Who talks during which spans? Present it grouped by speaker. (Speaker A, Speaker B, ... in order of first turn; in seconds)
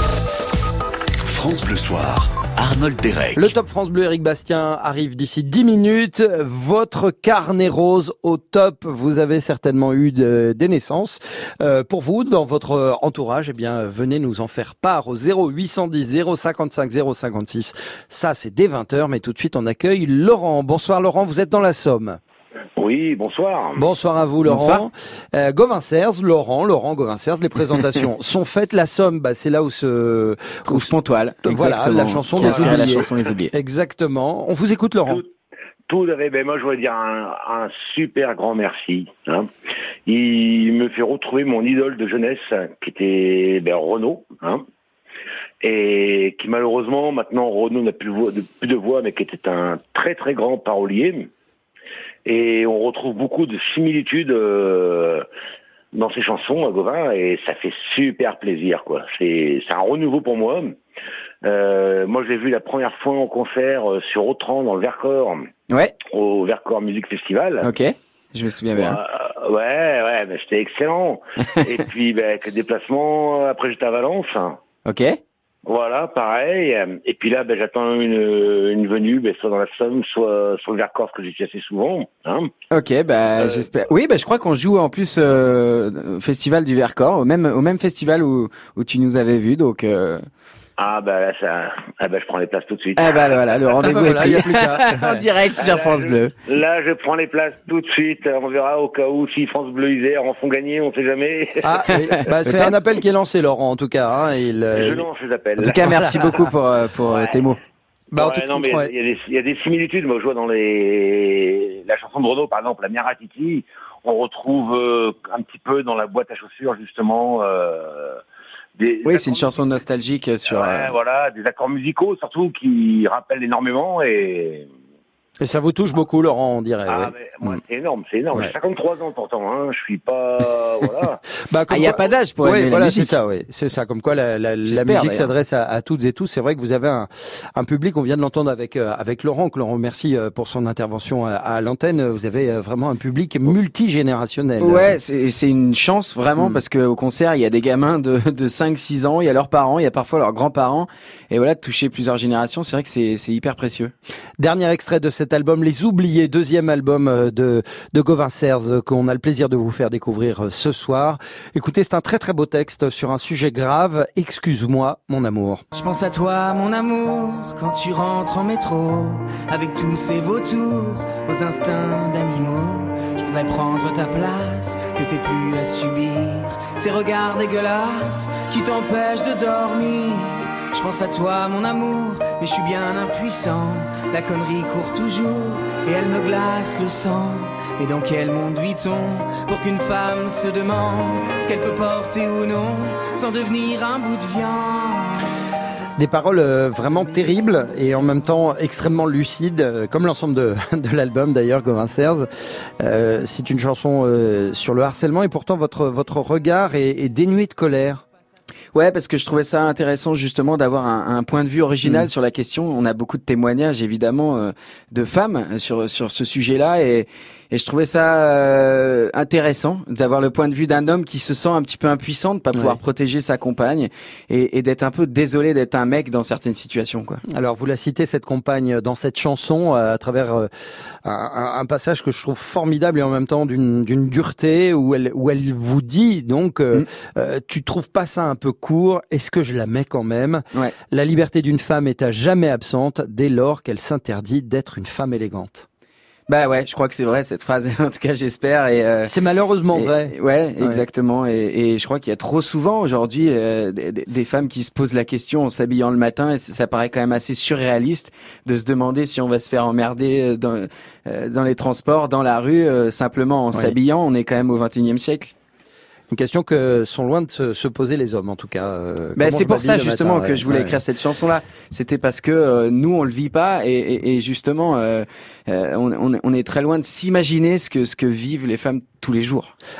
Speaker A: 1.2-3.5
Speaker B: 3.4-22.2, 23.8-30.9, 31.4-35.2, 93.7-95.3, 101.6-105.0, 105.7-106.4, 108.1-108.9, 125.4-127.5, 131.5-145.0, 154.4-165.6, 195.9-202.3, 202.8-208.0, 211.8-212.1, 227.3-230.5, 231.0-245.7, 249.0-250.8, 266.1-270.8
Speaker C: 22.8-23.9, 35.9-39.5, 40.1-44.6, 45.6-51.3, 52.2-55.2, 55.9-60.8, 61.4-65.5, 66.0-67.7, 68.7-74.6, 75.7-82.5, 83.4-83.7, 90.8-93.8, 95.6-102.2, 104.7-106.4, 108.1-118.2, 118.8-119.5, 120.5-124.7, 126.9-131.2
Speaker D: 24.5-24.8, 30.7-33.5, 65.7-65.9, 67.6-69.0, 74.8-75.2, 82.7-90.2, 93.0-96.3, 102.0-102.8, 105.6-107.6, 119.0-120.9, 131.7-133.2, 134.6-135.3, 144.6-153.9, 208.7-227.2, 246.3-249.1, 249.7-265.3, 269.2-279.5
Speaker E: 165.7-195.2